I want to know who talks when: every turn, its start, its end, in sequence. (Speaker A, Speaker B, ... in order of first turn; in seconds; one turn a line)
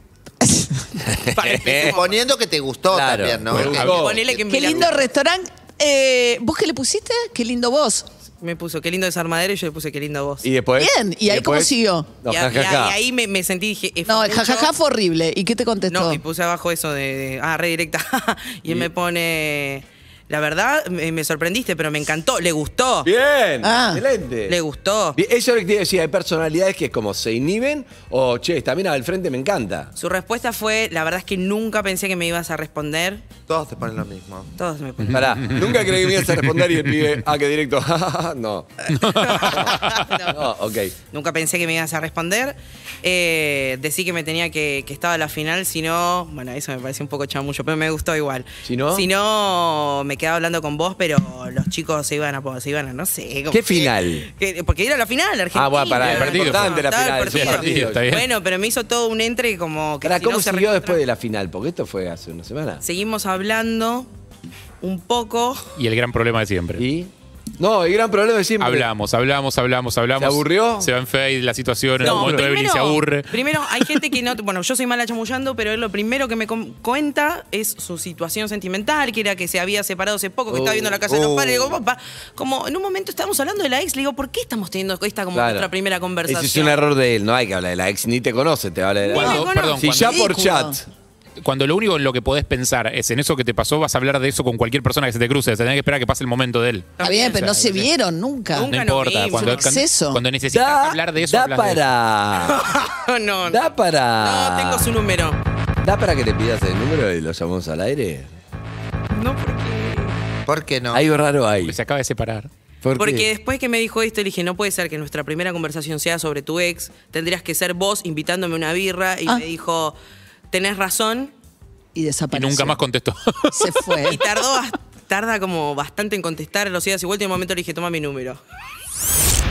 Speaker A: 0.4-0.9
Speaker B: 1.1-2.0
Speaker C: 1.4-2.1
Speaker D: 1.7-4.0
Speaker B: 2.9-4.9
Speaker E: 3.5-4.0
Speaker C: 3.7-5.1
Speaker A: 4.4-8.1
Speaker C: 8.4-10.4
Speaker B: 10.4-13.0
Speaker A: 10.8-12.1
Speaker C: 12.3-14.7
Speaker A: 14.1-16.2
Speaker C: 15.9-23.1
Speaker B: 23.0-24.6
Speaker A: 23.6-24.0
Speaker C: 24.5-25.2
Speaker B: 25.1-29.9
Speaker C: 30.0-33.2
Speaker D: 33.5-34.5
Speaker C: 34.6-35.5
Speaker E: 35.1-35.8
Speaker B: 35.1-38.7
Speaker E: 39.0-40.0
Speaker C: 39.0-40.4
Speaker B: 39.5-41.0
Speaker C: 41.1-61.0
Speaker B: 48.6-49.1
Speaker B: 53.5-54.3
Speaker B: 55.5-58.1
Speaker E: 56.0-58.3
Speaker B: 60.0-62.8
Speaker C: 62.8-64.1
Speaker C: 64.8-65.7
Speaker E: 65.8-66.8
Speaker B: 66.8-68.9
Speaker E: 68.6-73.3
Speaker B: 70.2-70.9
Speaker B: 72.0-72.5
Speaker C: 72.0-86.8
Speaker B: 80.5-81.0
Speaker D: 81.1-81.8
Speaker B: 85.3-85.7
Speaker B: 86.3-90.8
Speaker C: 89.0-90.3
Speaker E: 89.2-90.1
Speaker A: 89.2-90.8
Speaker E: 91.4-97.9
Speaker C: 97.0-97.9
Speaker A: 97.0-98.8
Speaker C: 98.5-99.7
Speaker E: 98.6-101.8
Speaker A: 99.3-100.2
Speaker B: 100.5-102.7
Speaker C: 102.4-103.6
Speaker B: 103.5-104.9
Speaker C: 104.2-105.4
Speaker B: 105.8-108.3
Speaker C: 109.1-110.2
Speaker D: 110.5-111.0
Speaker B: 110.9-111.8
Speaker E: 111.7-112.5
Speaker B: 112.8-113.3
Speaker C: 113.0-120.0
Speaker C: 120.5-121.3
Speaker A: 122.0-122.8
Speaker E: 122.3-123.7
Speaker A: 123.5-124.3
Speaker C: 124.0-128.4